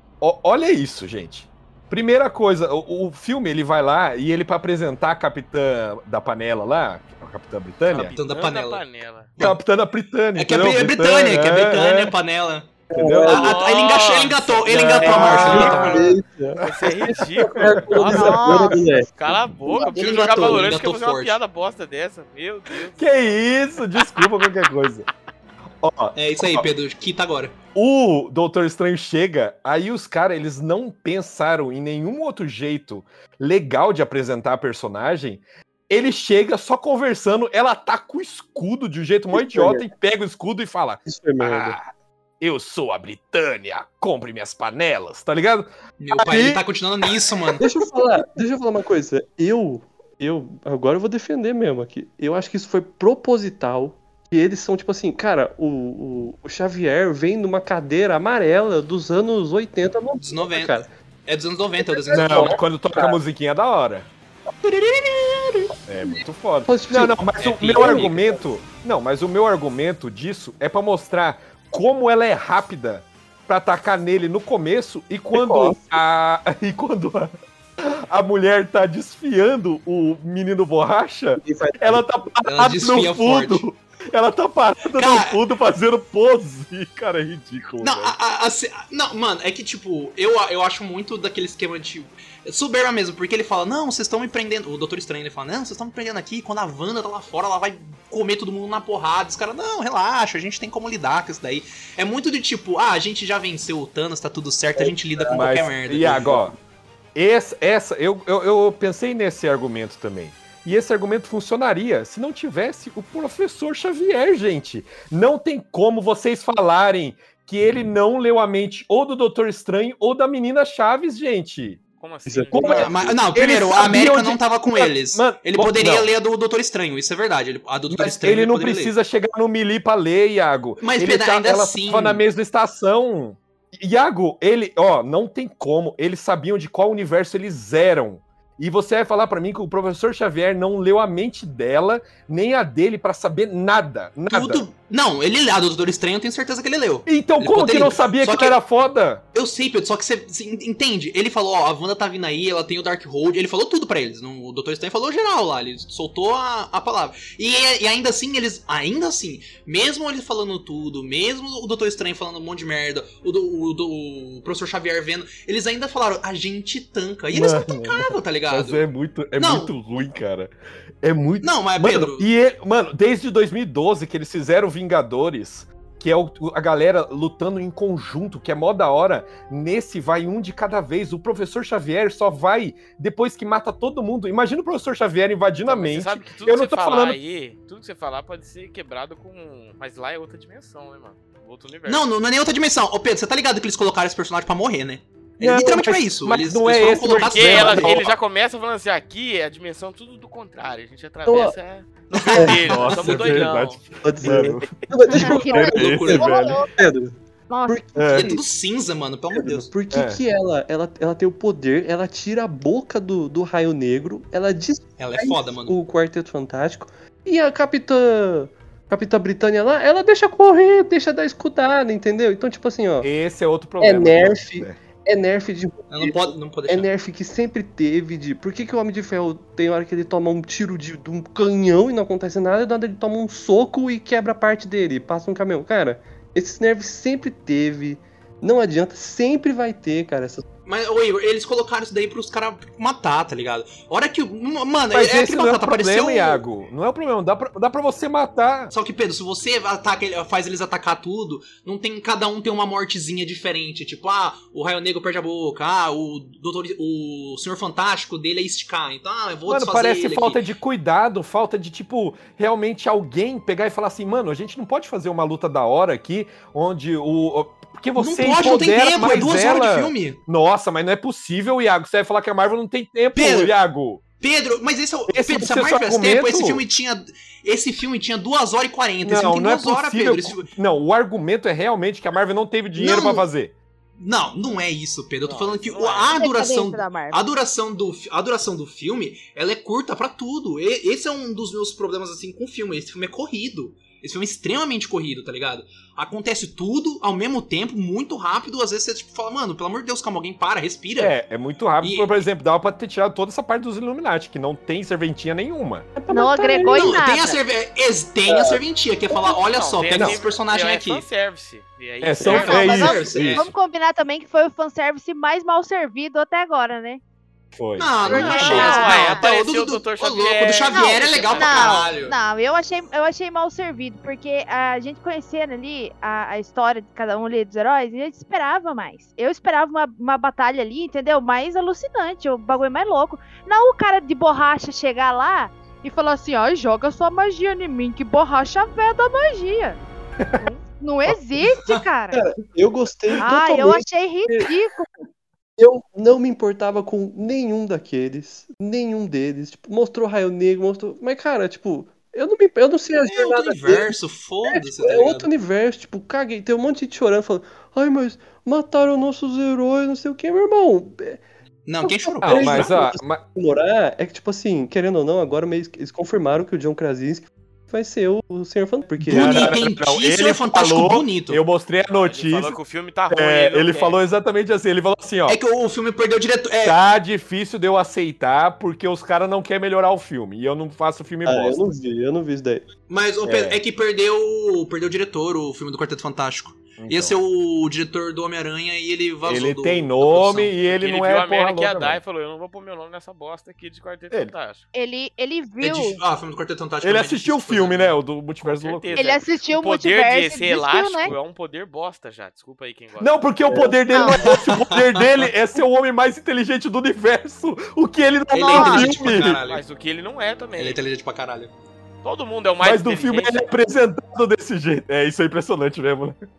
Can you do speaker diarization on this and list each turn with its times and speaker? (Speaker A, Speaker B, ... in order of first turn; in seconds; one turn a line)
Speaker A: 0.2-8.2
Speaker B: 7.9-8.8
Speaker C: 8.2-9.3
Speaker A: 9.4-12.1
Speaker B: 10.4-16.1
Speaker D: 12.9-13.6
Speaker A: 12.9-13.6
Speaker C: 13.3-23.3
Speaker A: 14.7-16.8
Speaker D: 15.0-20.8
Speaker A: 17.5-17.8
Speaker E: 18.0-18.8
Speaker B: 19.8-21.4
Speaker A: 22.9-25.1
Speaker C: 24.0-24.3
Speaker A: 25.8-26.6
Speaker B: 26.1-27.5
Speaker A: 27.7-41.9
Speaker D: 39.3-39.9
Speaker D: 41.0-41.8
Speaker A: 42.4-46.6
Speaker B: 46.0-47.6
Speaker D: 47.6-60.9
Speaker B: 60.2-62.6
Speaker D: 61.8-63.2
Speaker A: 62.1-64.1
Speaker B: 64.6-65.7
Speaker A: 65.8-88.2
Speaker D: 66.0-68.5
Speaker B: 67.4-68.2
Speaker D: 75.3-75.8
Speaker D: 81.4-82.0
Speaker B: 82.4-83.6
Speaker B: 84.9-85.4
Speaker B: 87.8-106.4
Speaker D: 104.8-105.4
Speaker A: 105.3-106.5
Speaker D: 106.0-106.4
Speaker A: 107.1-121.8
Speaker C: 122.0-123.0
Speaker D: 122.3-123.2
Speaker A: 122.5-126.1
Speaker B: 122.6-128.9
Speaker A: 127.9-144.6
Speaker B: 130.8-132.2
Speaker B: 144.3-148.6
Speaker A: 147.1-149.2
Speaker B: 149.3-168.8
Speaker A: 167.3-187.2
Speaker B: 169.4-169.7
Speaker B: 171.4-172.3
Speaker C: 185.6-192.0
Speaker B: 191.9-198.0
Speaker A: 195.4-198.2
Speaker C: 197.1-203.9
Speaker D: 201.2-201.6
Speaker B: 202.2-203.5
Speaker D: 202.3-202.7
Speaker A: 202.6-206.6
Speaker D: 204.0-207.1
Speaker E: 205.1-206.7
Speaker B: 205.1-206.5
Speaker E: 207.5-207.8
Speaker D: 207.7-208.4
Speaker A: 207.9-208.3
Speaker B: 208.1-209.7
Speaker D: 209.3-223.1
Speaker A: 209.9-210.2
Speaker B: 215.0-215.8
Speaker A: 223.0-224.8
Speaker D: 223.8-240.4
Speaker B: 225.9-226.9
Speaker B: 240.7-246.4
Speaker A: 244.9-248.7
Speaker B: 248.7-260.4
Speaker A: 259.5-274.0
Speaker B: 268.0-270.2
Speaker B: 273.1-273.5
Speaker B: 274.2-280.5
Speaker A: 275.1-276.6
Speaker A: 279.0-283.5
Speaker B: 282.8-283.3
Speaker B: 284.0-301.1
Speaker C: 285.2-286.3
Speaker E: 286.2-287.2
Speaker A: 301.0-305.9
Speaker B: 301.8-302.1
Speaker D: 305.9-307.0
Speaker E: 306.1-307.4
Speaker B: 306.7-311.1
Speaker D: 308.3-308.6
Speaker C: 309.2-312.9
Speaker A: 309.9-310.2
Speaker A: 312.0-313.4
Speaker B: 312.2-313.5
Speaker E: 312.4-317.0
Speaker A: 317.5-318.7
Speaker B: 317.8-322.1
Speaker E: 318.1-319.3
Speaker C: 318.2-321.9
Speaker E: 320.7-339.8
Speaker E: 340.4-342.2
Speaker D: 342.1-344.5
Speaker E: 343.2-344.9
Speaker D: 345.6-353.9
Speaker B: 353.0-355.3
Speaker D: 354.5-361.2
Speaker B: 361.6-362.8
Speaker D: 361.8-369.6
Speaker A: 362.2-363.2
Speaker A: 369.0-372.6
Speaker B: 369.1-371.4
Speaker C: 371.9-374.0
Speaker A: 373.1-375.4
Speaker B: 375.3-376.8
Speaker A: 376.6-381.6
Speaker D: 381.2-382.7
Speaker B: 382.9-390.6
Speaker A: 383.2-383.6
Speaker A: 386.8-387.1
Speaker A: 389.2-392.0
Speaker C: 390.6-394.6
Speaker E: 394.7-396.0
Speaker B: 395.6-397.9
Speaker A: 396.8-399.0
Speaker C: 398.4-403.2
Speaker E: 398.9-401.1
Speaker A: 403.0-409.4
Speaker D: 403.5-403.8
Speaker E: 403.9-404.2
Speaker B: 404.2-405.3
Speaker B: 408.3-409.6
Speaker E: 408.5-408.9
Speaker C: 409.1-410.8
Speaker B: 410.6-411.5
Speaker C: 412.0-413.5
Speaker A: 412.6-416.2